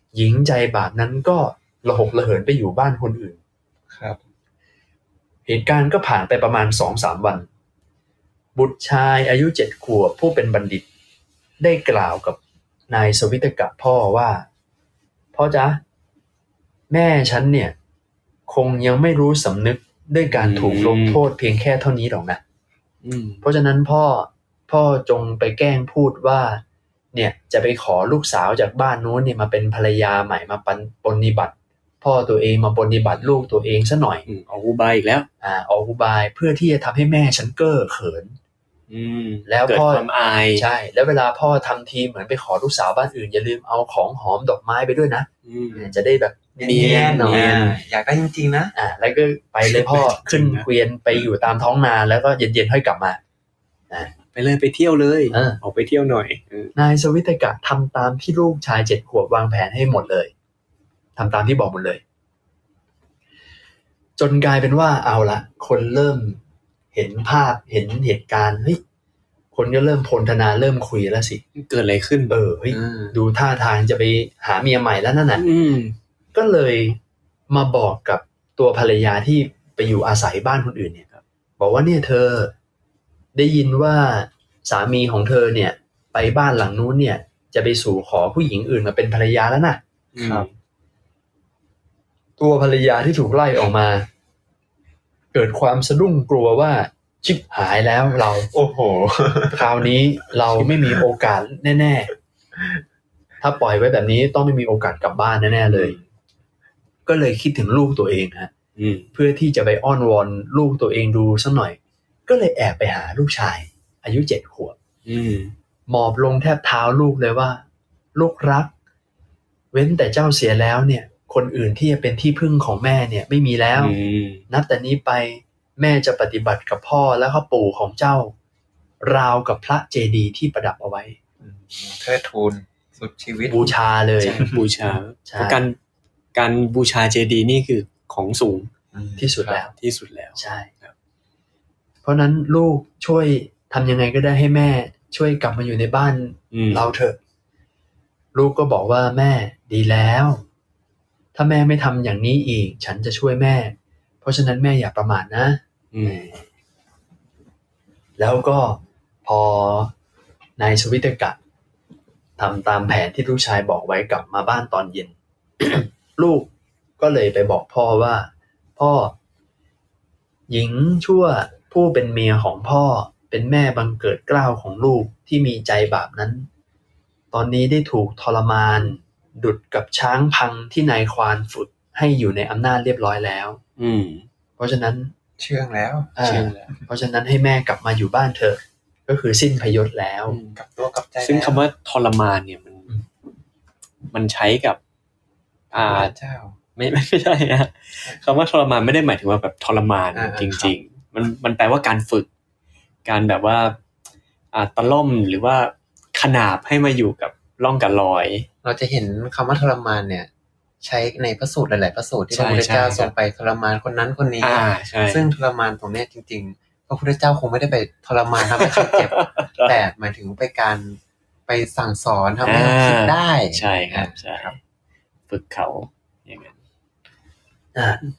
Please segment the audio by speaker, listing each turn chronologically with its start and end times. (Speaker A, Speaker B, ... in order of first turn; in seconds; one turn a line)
Speaker A: 0.1-3.4
Speaker B: 3.9-4.2
Speaker A: 5.5-7.5
Speaker A: 8.6-10.9
Speaker A: 11.6-14.5
Speaker A: 15.3-15.8
Speaker A: 16.9-17.7
Speaker A: 18.5-22.4
Speaker C: 20.3-21.2
Speaker C: 23.0-23.4
Speaker A: 23.4-26.6
Speaker A: 27.1-34.2
Speaker C: 34.3-35.3
Speaker A: 35.4-38.4
Speaker C: 38.9-40.6
Speaker A: 39.5-47.5
Speaker C: 45.5-45.9
Speaker B: 45.8-46.0
Speaker B: 46.6-48.7
Speaker C: 46.6-47.8
Speaker A: 48.8-53.2
Speaker C: 49.8-50.7
Speaker C: 54.3-56.7
Speaker A: 55.3-55.6
Speaker A: 56.8-60.3
Speaker A: 61.2-62.0
Speaker A: 64.2-66.4
Speaker A: 66.9-68.8
Speaker A: 69.5-71.4
Speaker C: 71.5-72.4
Speaker A: 72.3-75.5
Speaker B: 72.7-73.1
Speaker C: 75.4-76.0
Speaker A: 76.3-77.0
Speaker A: 77.5-81.1
Speaker A: 81.6-82.5
Speaker A: 83.3-89.8
Speaker C: 90.2-90.5
Speaker B: 90.2-90.5
Speaker A: 92.4-94.1
Speaker A: 95.3-98.5
Speaker B: 98.5-99.7
Speaker A: 99.5-102.1
Speaker A: 103.4-106.0
Speaker C: 105.6-106.0
Speaker A: 107.1-108.5
Speaker C: 108.8-109.1
Speaker A: 109.1-114.8
Speaker C: 115.0-115.5
Speaker A: 115.9-117.6
Speaker A: 118.2-118.7
Speaker A: 119.7-124.0
Speaker C: 123.8-124.4
Speaker A: 124.5-128.3
Speaker A: 129.0-131.2
Speaker B: 131.4-133.7
Speaker A: 133.5-134.5
Speaker C: 134.2-135.8
Speaker A: 135.2-135.6
Speaker C: 136.3-138.7
Speaker B: 138.9-139.6
Speaker A: 139.2-139.7
Speaker C: 139.8-140.9
Speaker A: 140.4-140.7
Speaker A: 142.0-147.2
Speaker C: 146.5-146.9
Speaker A: 148.3-150.4
Speaker A: 151.3-156.4
Speaker C: 155.9-156.3
Speaker A: 158.2-159.9
Speaker A: 160.6-161.4
Speaker A: 162.4-169.2
Speaker A: 170.5-176.5
Speaker A: 177.3-183.6
Speaker C: 183.8-184.3
Speaker A: 184.6-185.1
Speaker B: 185.4-186.2
Speaker A: 186.2-190.4
Speaker C: 186.2-186.7
Speaker C: 190.3-190.6
Speaker B: 190.6-191.6
Speaker C: 191.2-192.9
Speaker C: 194.1-194.8
Speaker C: 195.7-196.1
Speaker B: 195.8-196.6
Speaker C: 196.8-202.3
Speaker B: 200.1-200.7
Speaker C: 203.1-203.8
Speaker C: 204.5-208.5
Speaker B: 208.6-210.3
Speaker B: 210.8-224.5
Speaker C: 212.3-213.1
Speaker C: 214.4-215.3
Speaker C: 218.5-219.8
Speaker C: 222.4-224.6
Speaker C: 225.3-226.6
Speaker A: 227.8-228.0